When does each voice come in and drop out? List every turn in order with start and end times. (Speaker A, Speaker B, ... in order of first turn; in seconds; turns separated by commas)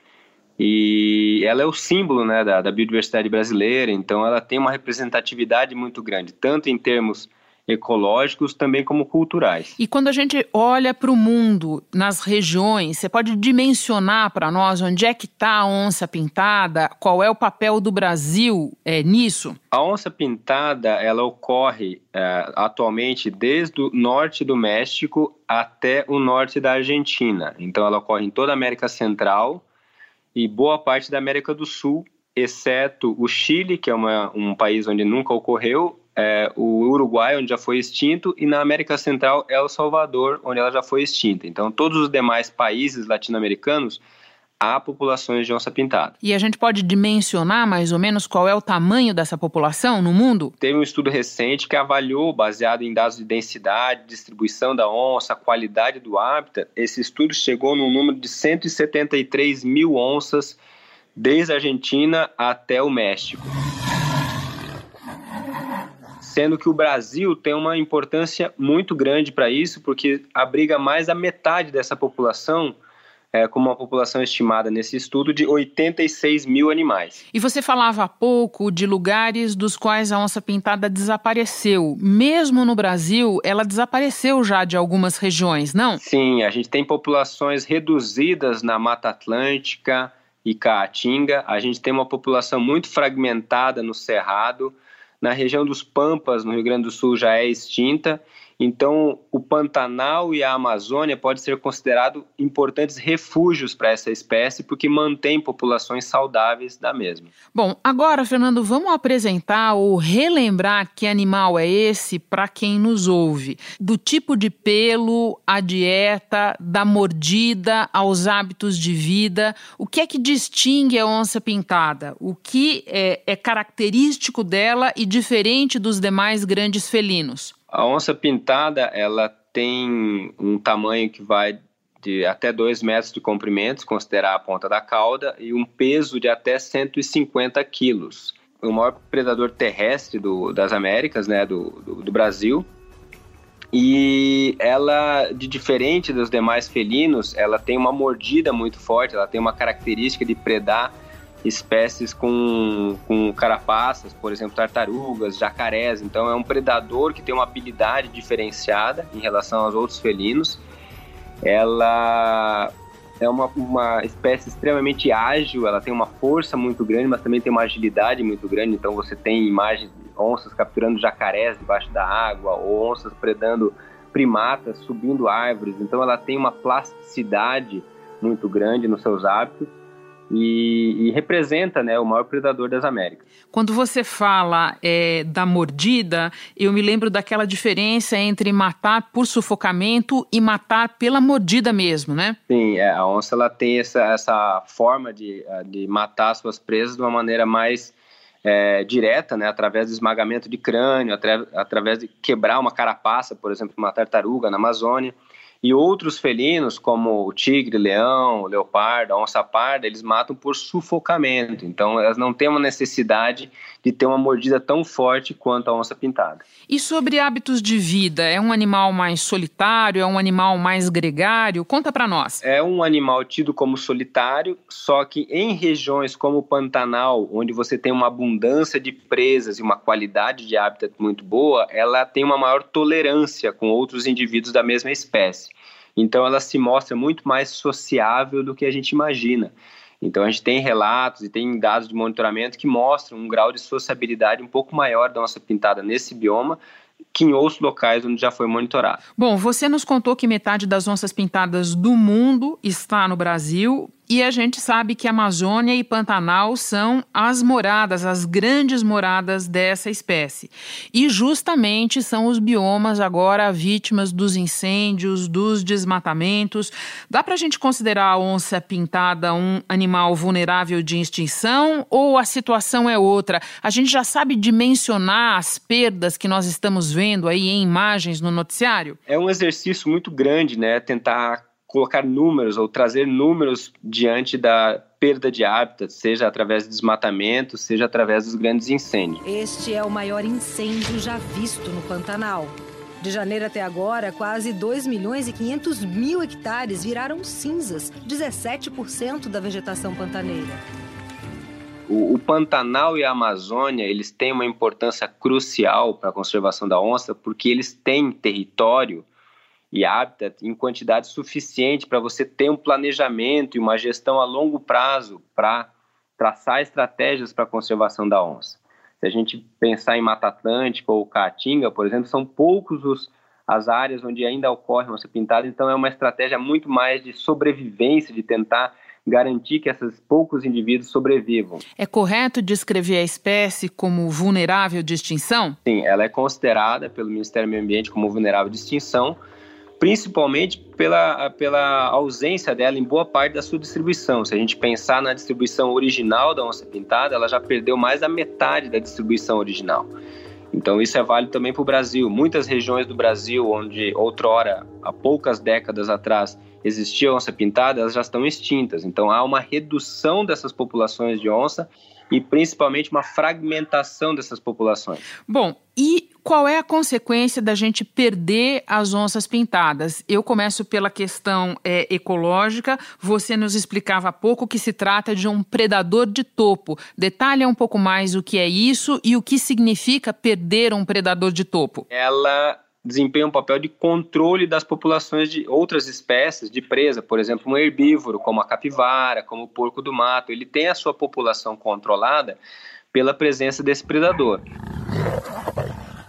Speaker A: 0.6-9.8, Speaker B: 9.8-19.6, Speaker A: 19.7-29.6, Speaker A: 30.4-44.0, Speaker A: 44.6-46.1, Speaker B: 46.2-50.5, Speaker A: 50.6-60.6, Speaker A: 61.2-63.5, Speaker A: 66.2-72.8, Speaker A: 73.3-77.2, Speaker B: 77.3-86.0, Speaker A: 86.0-107.3, Speaker B: 107.5-127.5, Speaker A: 127.7-142.7, Speaker A: 143.7-160.6, Speaker A: 161.4-179.7, Speaker A: 180.3-183.2, Speaker B: 183.5-192.4, Speaker A: 192.5-216.4, Speaker B: 216.7-222.4, Speaker A: 222.4-246.6, Speaker A: 247.1-249.0, Speaker B: 249.2-279.0, Speaker A: 279.1-289.2, Speaker C: 289.2-300.6, Speaker A: 301.9-309.1, Speaker A: 309.7-331.6, Speaker B: 331.8-335.6, Speaker A: 335.7-339.2, Speaker A: 339.8-349.9, Speaker A: 350.5-365.0, Speaker B: 365.3-381.9, Speaker A: 381.9-392.4, Speaker A: 392.9-394.4